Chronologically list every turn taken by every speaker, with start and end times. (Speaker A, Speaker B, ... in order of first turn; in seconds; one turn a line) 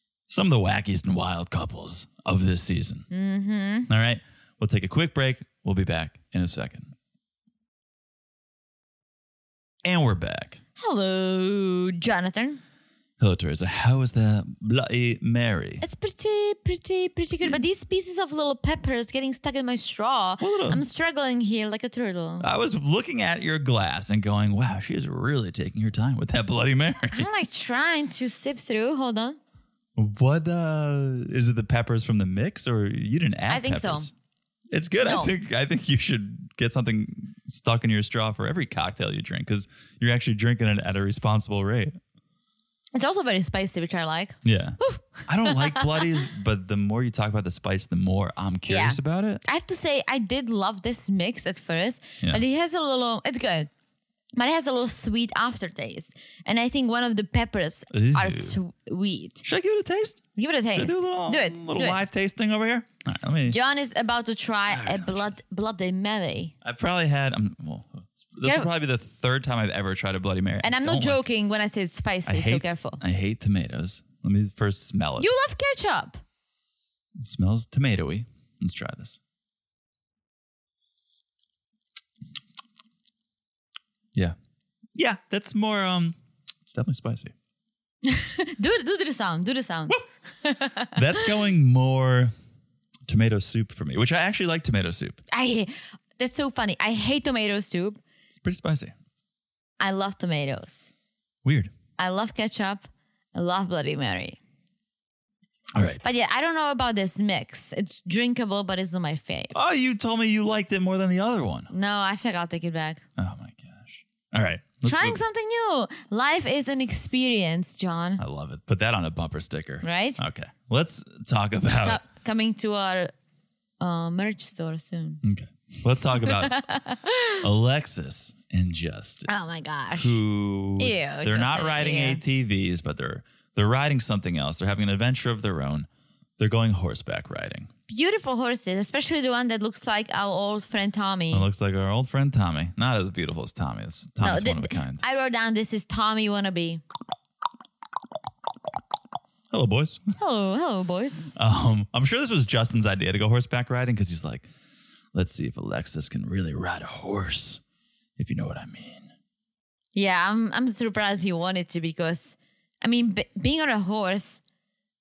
Speaker A: 0.3-3.1
Speaker B: 3.1-3.9
Speaker A: 3.9-6.9
Speaker A: 9.8-10.6
Speaker B: 10.8-12.6
Speaker A: 13.2-15.8
Speaker B: 15.8-22.5
Speaker A: 20.4-20.8
Speaker A: 22.4-27.3
Speaker B: 27.1-29.4
Speaker A: 29.9-34.1
Speaker B: 33.5-34.1
Speaker A: 34.7-42.0
Speaker B: 35.0-35.3
Speaker B: 42.9-46.1
Speaker A: 44.4-49.4
Speaker B: 48.7-53.7
Speaker B: 54.4-59.4
Speaker A: 57.9-58.5
Speaker A: 59.4-63.6
Speaker B: 60.4-62.0
Speaker B: 63.5-66.5
Speaker A: 64.7-65.3
Speaker A: 66.6-71.2
Speaker B: 68.4-68.7
Speaker B: 70.6-73.0
Speaker A: 72.2-75.3
Speaker B: 75.2-76.2
Speaker A: 77.2-79.2
Speaker A: 84.9-87.3
Speaker B: 88.1-90.9
Speaker A: 90.9-92.3
Speaker A: 93.1-95.2
Speaker B: 95.3-98.0
Speaker A: 98.3-98.9
Speaker B: 99.8-100.9
Speaker A: 101.4-101.7
Speaker B: 102.0-104.4
Speaker A: 105.7-106.0
Speaker B: 106.0-109.5
Speaker A: 109.5-111.7
Speaker B: 111.7-113.0
Speaker A: 113.2-115.2
Speaker B: 114.8-118.2
Speaker A: 118.2-122.0
Speaker B: 119.8-120.2
Speaker B: 121.8-123.1
Speaker B: 123.8-125.2
Speaker A: 125.2-126.6
Speaker B: 126.2-127.4
Speaker A: 127.4-129.3
Speaker B: 129.3-130.2
Speaker A: 130.0-137.7
Speaker B: 130.8-132.2
Speaker B: 137.9-141.4
Speaker A: 141.3-145.0
Speaker B: 144.2-146.8
Speaker A: 149.5-150.1
Speaker B: 150.2-151.3
Speaker A: 151.3-154.5
Speaker A: 155.1-157.6
Speaker A: 158.2-159.1
Speaker B: 159.9-164.4